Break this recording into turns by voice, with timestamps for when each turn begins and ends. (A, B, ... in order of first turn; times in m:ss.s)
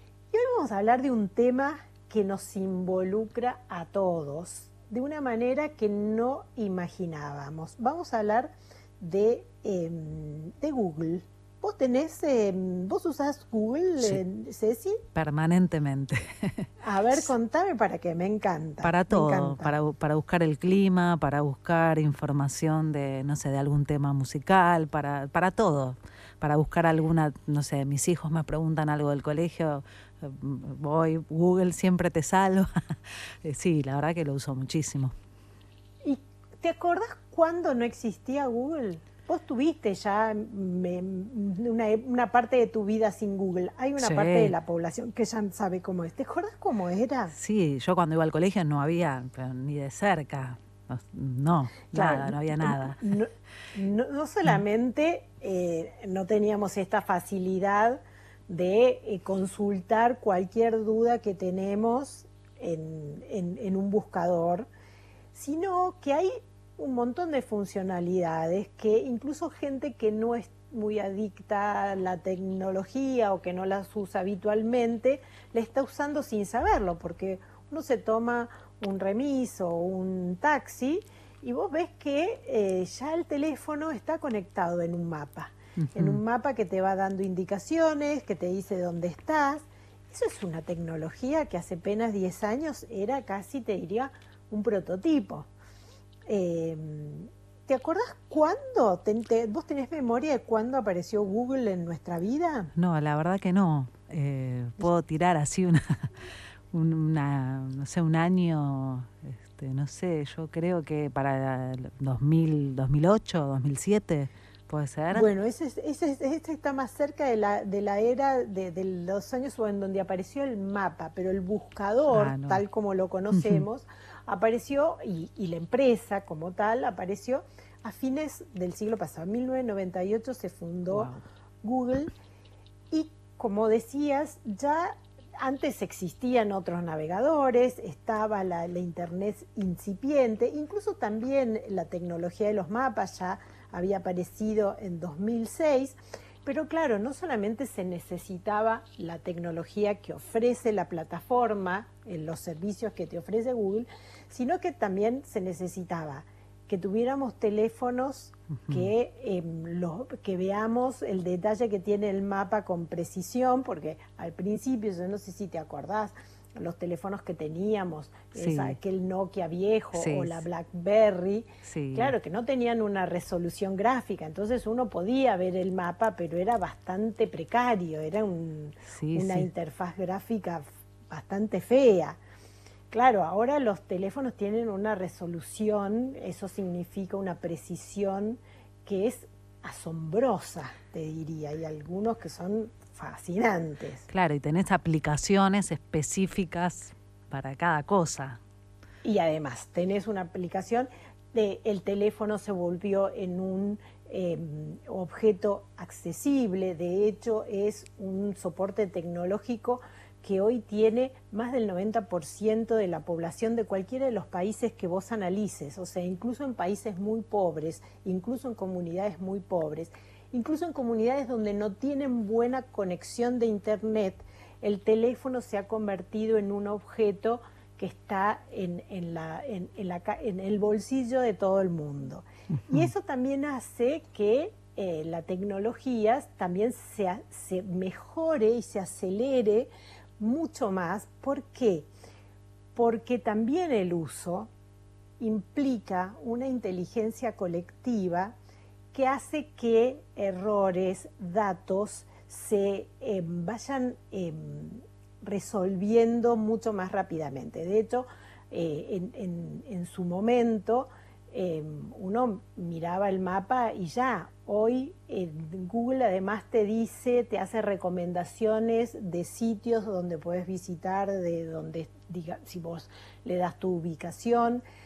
0:00.3-0:15.0 A
0:15.2-0:17.2 B
0:16.8-0:19.7 A
0:18.8-0:32.7 B
0:33.4-0:35.2 B
0:36.0-0:47.3 A
0:44.0-0:44.5 B
0:47.3-0:53.0 B
0:51.9-1:04.7 A
1:05.3-1:35.5 A
1:25.8-1:26.2 B
1:36.3-1:42.7 A
1:42.8-1:46.1 B
1:46.7-1:55.3 B
1:55.1-2:11.1 A
2:02.1-2:02.6 B
2:03.3-2:03.6 B
2:10.9-2:11.2 B
2:11.6-2:12.1 A
2:12.9-3:02.2 A
2:38.6-2:38.9 B
2:48.4-2:48.8 B
2:49.9-2:50.4 B
2:51.6-2:52.1 B
2:58.9-2:59.5 B
3:02.9-3:14.1 A
3:14.1-3:18.4 B
3:19.0-4:01.9 A
4:02.8-4:04.5 A
4:05.2-4:08.3 A
4:08.9-4:34.6 A